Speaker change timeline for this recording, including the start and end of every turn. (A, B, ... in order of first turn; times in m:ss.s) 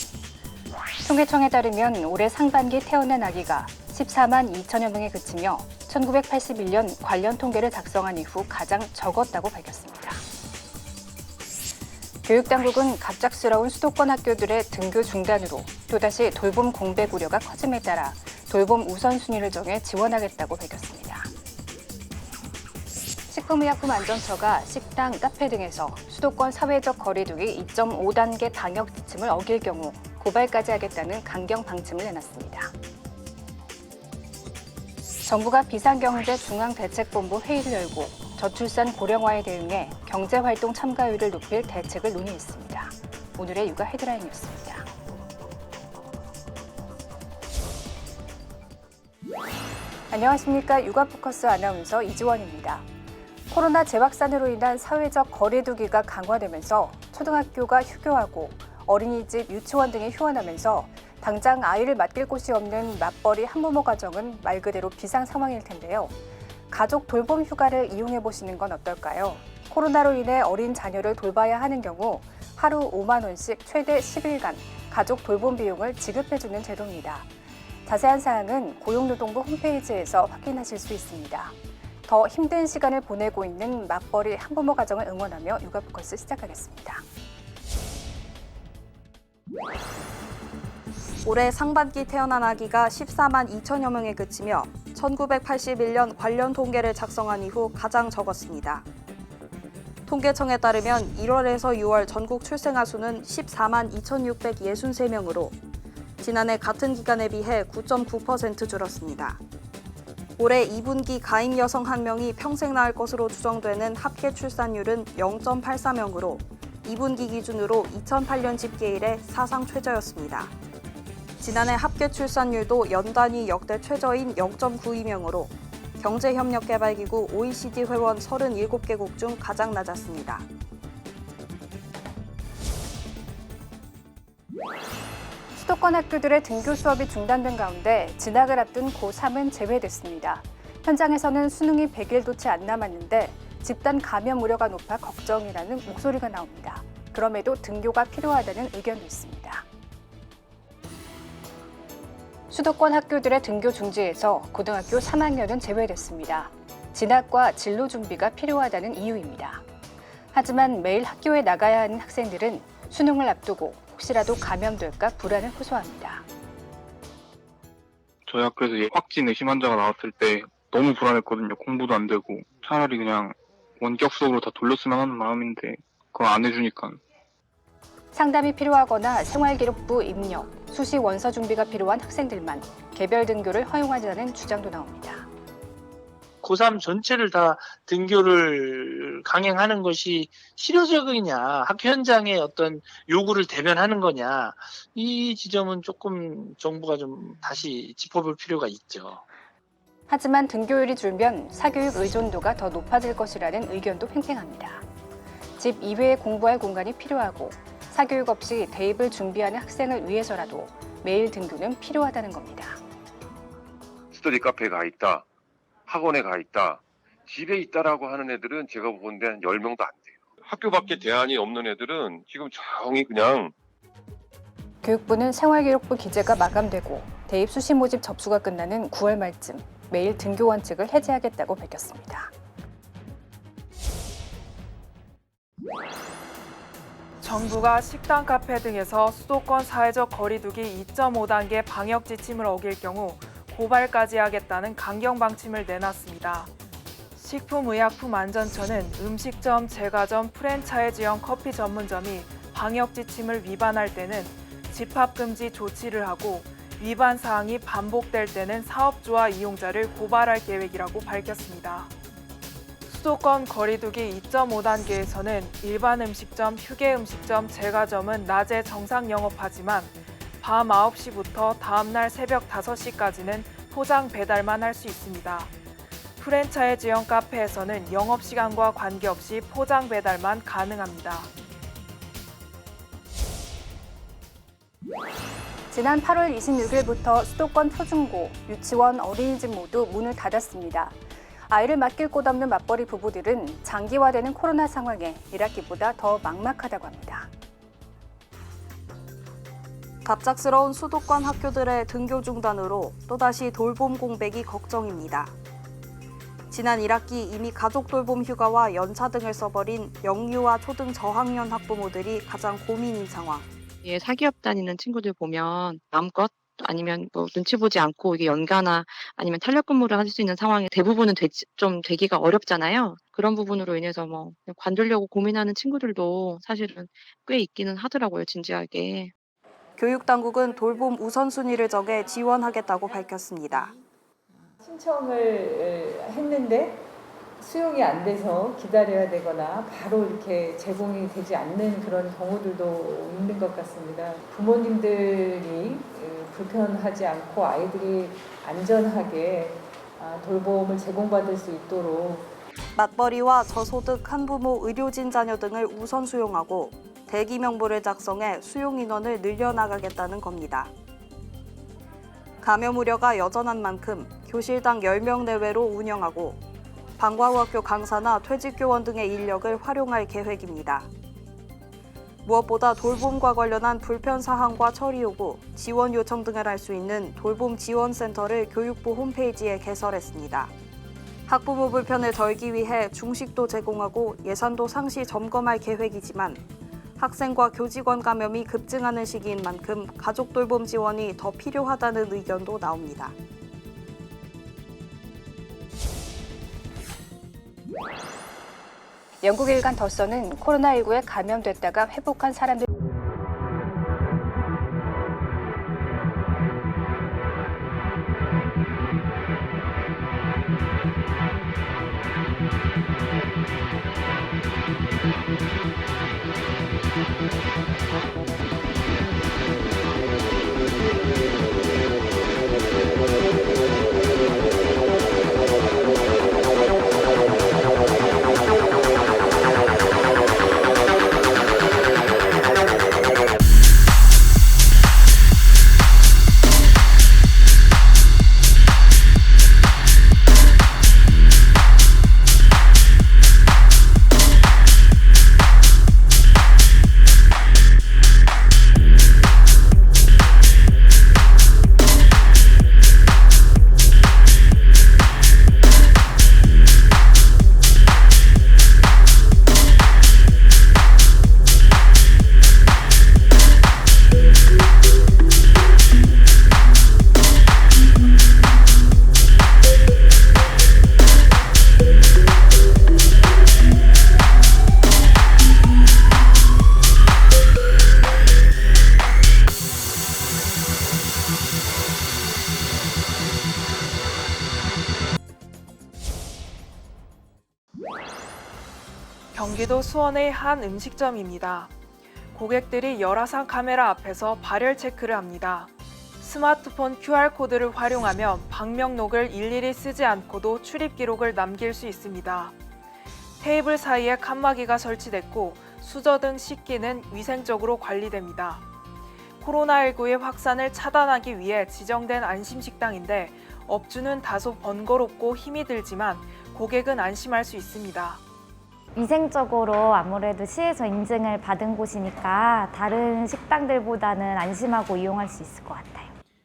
0:01.0-0:10.2 A
0:12.2-0:21.3 A
0:23.3-0:32.7 A
0:35.2-0:44.9 A
0:50.1-0:52.8 A
0:53.5-1:06.1 A
1:06.7-1:17.3 A
1:17.8-1:21.5 A
1:22.0-1:27.0 A
1:31.2-1:38.8 B
1:40.1-1:45.6 B
1:46.2-1:49.4 B
1:50.4-2:00.5 B
2:01.4-2:10.4 B
2:15.5-2:29.6 A
2:32.5-2:39.6 A
2:40.3-2:46.2 A
2:48.3-2:57.0 C
2:58.1-3:05.3 A
3:06.4-3:19.2 D
3:20.1-3:24.8 A
3:25.6-3:32.8 A
3:34.1-3:35.2 E
3:35.9-3:43.5 E
3:44.8-3:52.3 A
3:57.2-4:06.5 F
4:07.2-4:21.9 F
4:22.9-4:35.5 F
4:36.2-4:41.3 F
4:45.7-4:51.0 A
4:51.5-4:57.3 A
5:00.0-5:05.3 B
5:06.5-5:13.4 B
5:13.8-5:29.1 G
5:29.8-5:33.7 B
5:34.6-5:52.3 H
5:52.8-6:00.7 B
6:02.4-6:06.4 B
6:07.0-6:10.9 B
6:12.2-6:20.5 B
6:21.3-6:26.4 B
6:27.0-6:33.1 B
6:39.2-6:42.7 A
8:09.3-8:11.7 F
8:12.3-8:22.5 F
8:23.4-8:28.6 F
8:29.4-8:38.2 F
8:38.9-8:46.1 I